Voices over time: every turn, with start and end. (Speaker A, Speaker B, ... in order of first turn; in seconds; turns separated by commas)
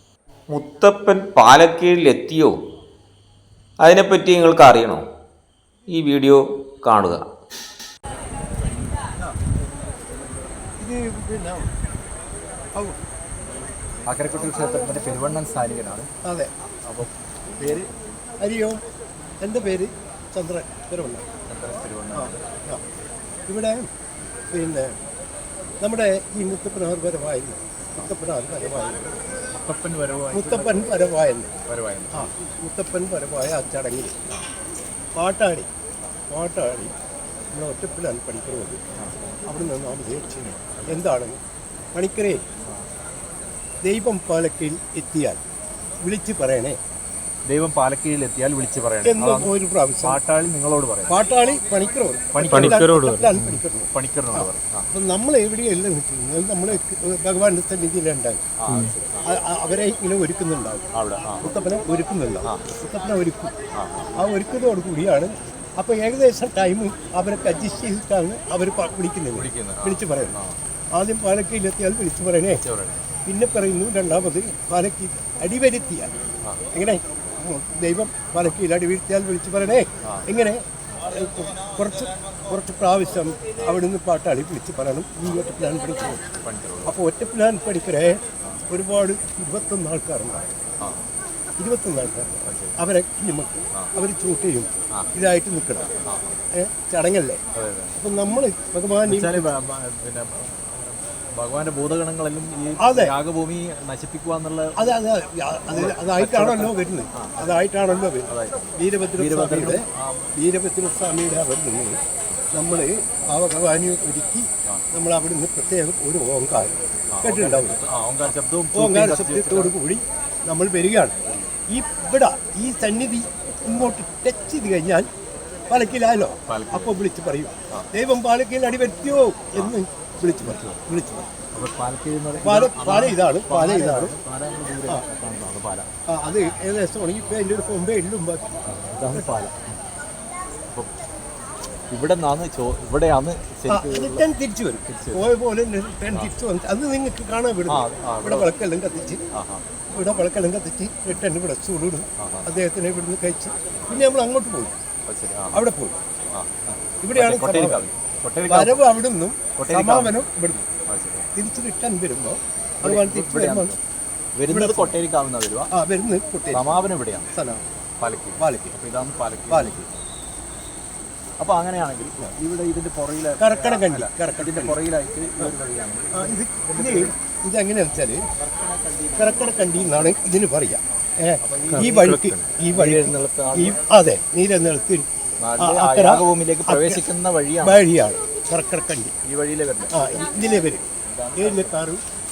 Speaker A: 0.5-2.5, Speaker A: 3.8-5.0, Speaker A: 5.9-7.2, Speaker B: 10.8-11.6, Speaker C: 14.1-16.1, Speaker B: 16.2-16.5, Speaker C: 16.8-17.9, Speaker B: 18.4-18.8, Speaker B: 19.4-21.2, Speaker C: 21.5-22.4, Speaker B: 22.1-22.8, Speaker B: 23.5-23.9, Speaker B: 24.5-24.9, Speaker B: 25.8-29.3, Speaker C: 29.5-30.9, Speaker B: 30.3-31.5, Speaker C: 31.7-32.3, Speaker B: 32.1-34.1, Speaker B: 35.1-35.7, Speaker B: 36.3-36.9, Speaker B: 37.5-38.8, Speaker B: 39.5-41.4, Speaker C: 40.7-41.1, Speaker B: 41.9-42.4, Speaker B: 43.8-45.4, Speaker B: 46.0-46.8, Speaker C: 47.5-49.5, Speaker B: 49.0-50.2, Speaker C: 50.0-51.1, Speaker B: 51.1-58.5, Speaker C: 52.3-54.8, Speaker A: 52.5-53.6, Speaker C: 58.6-59.2, Speaker B: 59.2-63.5, Speaker C: 60.9-61.5, Speaker C: 63.8-64.1, Speaker B: 64.2-70.4, Speaker C: 69.3-70.6, Speaker B: 70.9-72.6, Speaker C: 72.5-73.0, Speaker B: 73.2-76.1, Speaker B: 76.7-86.2, Speaker C: 86.2-87.0, Speaker B: 86.8-90.5, Speaker B: 91.6-95.9, Speaker C: 92.4-92.8, Speaker C: 96.1-96.4, Speaker B: 96.5-97.4, Speaker C: 97.5-98.0, Speaker B: 98.0-99.5, Speaker C: 99.1-104.9, Speaker B: 102.8-103.1, Speaker B: 104.8-112.0, Speaker C: 105.7-107.6, Speaker C: 108.3-110.3, Speaker B: 112.5-117.8, Speaker C: 117.1-119.7, Speaker B: 118.7-121.2, Speaker B: 121.7-125.1, Speaker B: 125.7-131.3, Speaker C: 126.5-126.9, Speaker C: 130.4-130.8, Speaker C: 131.5-135.9, Speaker B: 132.4-134.2, Speaker B: 136.1-139.5, Speaker C: 138.7-139.6, Speaker C: 141.9-144.2, Speaker B: 143.7-149.2, Speaker C: 144.9-145.3, Speaker C: 147.7-148.5, Speaker C: 149.3-149.6, Speaker B: 149.9-154.8, Speaker C: 152.2-152.5, Speaker C: 155.1-155.7, Speaker B: 155.5-156.0, Speaker C: 156.3-158.8, Speaker B: 157.0-157.8, Speaker B: 158.4-160.7, Speaker C: 159.6-160.2, Speaker C: 160.9-161.3, Speaker B: 161.3-163.8, Speaker C: 162.8-163.8, Speaker C: 164.3-165.7, Speaker B: 164.5-165.0, Speaker B: 165.7-166.8, Speaker C: 166.5-167.3, Speaker B: 167.3-167.7, Speaker C: 168.0-169.9, Speaker B: 168.4-168.7, Speaker B: 169.5-169.8, Speaker C: 171.4-177.1, Speaker B: 173.4-174.8, Speaker B: 176.1-178.2, Speaker C: 178.4-180.2, Speaker B: 179.2-185.1, Speaker C: 181.4-182.1, Speaker A: 181.7-182.5, Speaker C: 182.7-183.8, Speaker C: 185.4-187.8, Speaker B: 185.6-187.0, Speaker B: 187.6-189.2, Speaker C: 189.2-190.3, Speaker B: 189.9-190.8, Speaker C: 191.1-191.8, Speaker B: 191.3-192.0